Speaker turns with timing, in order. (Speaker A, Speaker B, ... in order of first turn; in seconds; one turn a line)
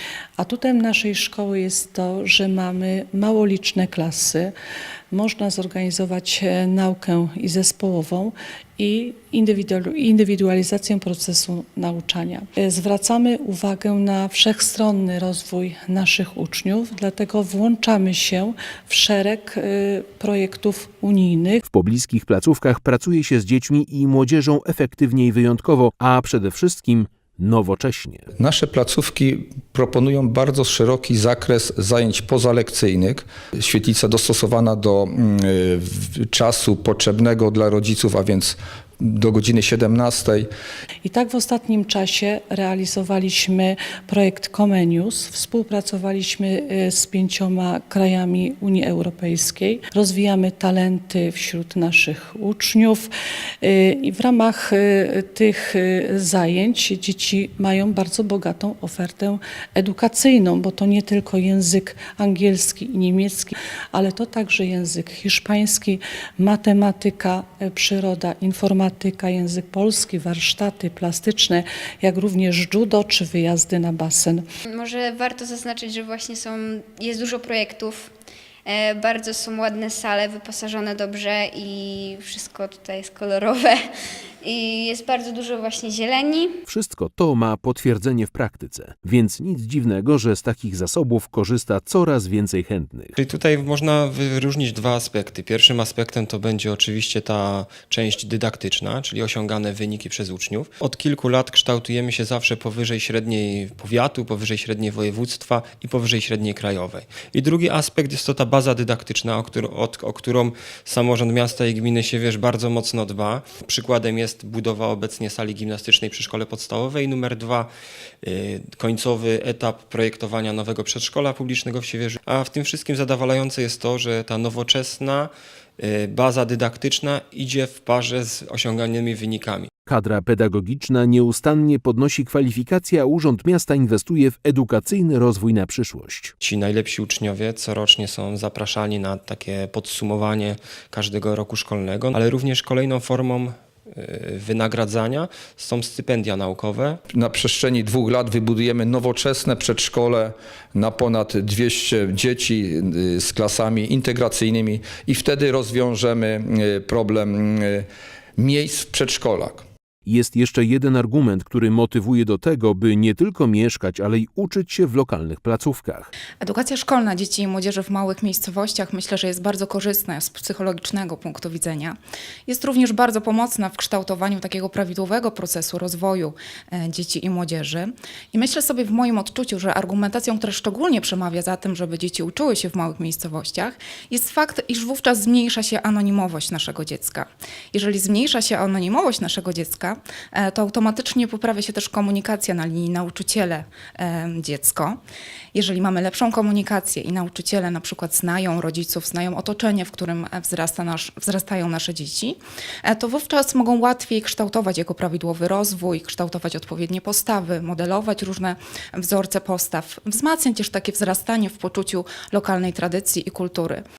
Speaker A: 0.4-4.5
Speaker A: 5.1-21.6
Speaker B: 21.7-28.3
Speaker C: 28.4-40.5
Speaker A: 41.0-74.4
Speaker D: 74.7-78.1
Speaker D: 78.6-83.8
Speaker D: 84.4-86.6
Speaker B: 86.7-93.1
Speaker E: 93.1-117.7
Speaker E: 118.2-129.7
Speaker B: 129.9-136.3
Speaker E: 136.4-147.0
Speaker C: 147.1-157.8
Speaker C: 158.4-159.7
Speaker B: 160.1-166.1
Speaker F: 166.4-195.0
Speaker F: 195.5-213.8